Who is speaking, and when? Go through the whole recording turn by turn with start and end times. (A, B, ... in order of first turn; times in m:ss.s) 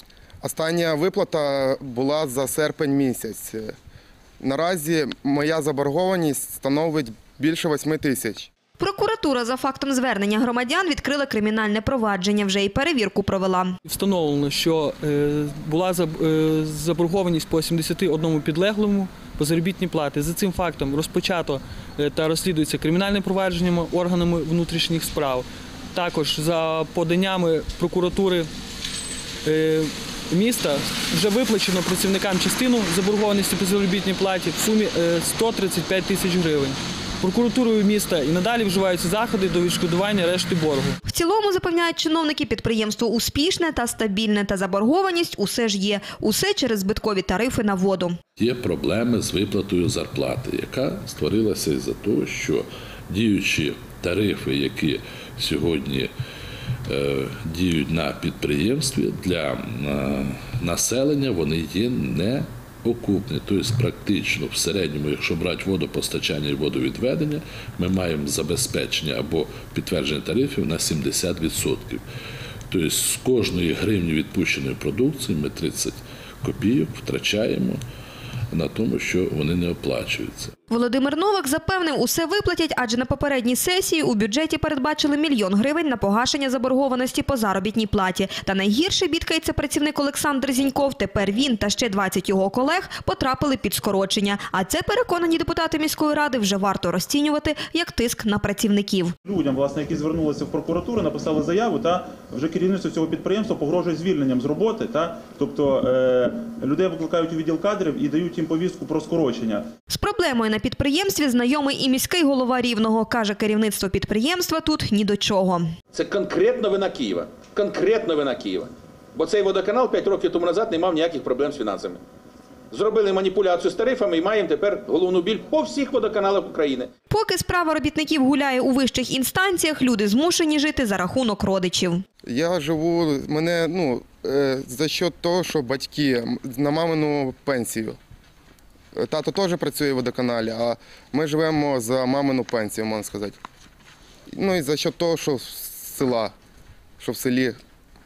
0:00.4-0:03.7 A
0:04.4-0:08.5 A
0:08.8-0:13.8 B
0:13.8-0:28.5 C
0:29.4-0:41.0 C
0:41.1-0:48.2 B
0:48.4-0:56.1 D
0:56.9-1:12.0 D
1:12.7-1:17.8 D
1:18.5-1:20.5 D
1:20.7-1:39.1 B
1:39.3-1:49.7 E
1:49.9-1:55.7 B
1:55.9-2:02.0 F
2:02.7-2:06.9 F
2:07.1-2:12.0 B
2:12.2-2:18.0 A
2:19.0-2:23.4 A
2:24.3-2:26.3 A
2:27.0-2:27.6 A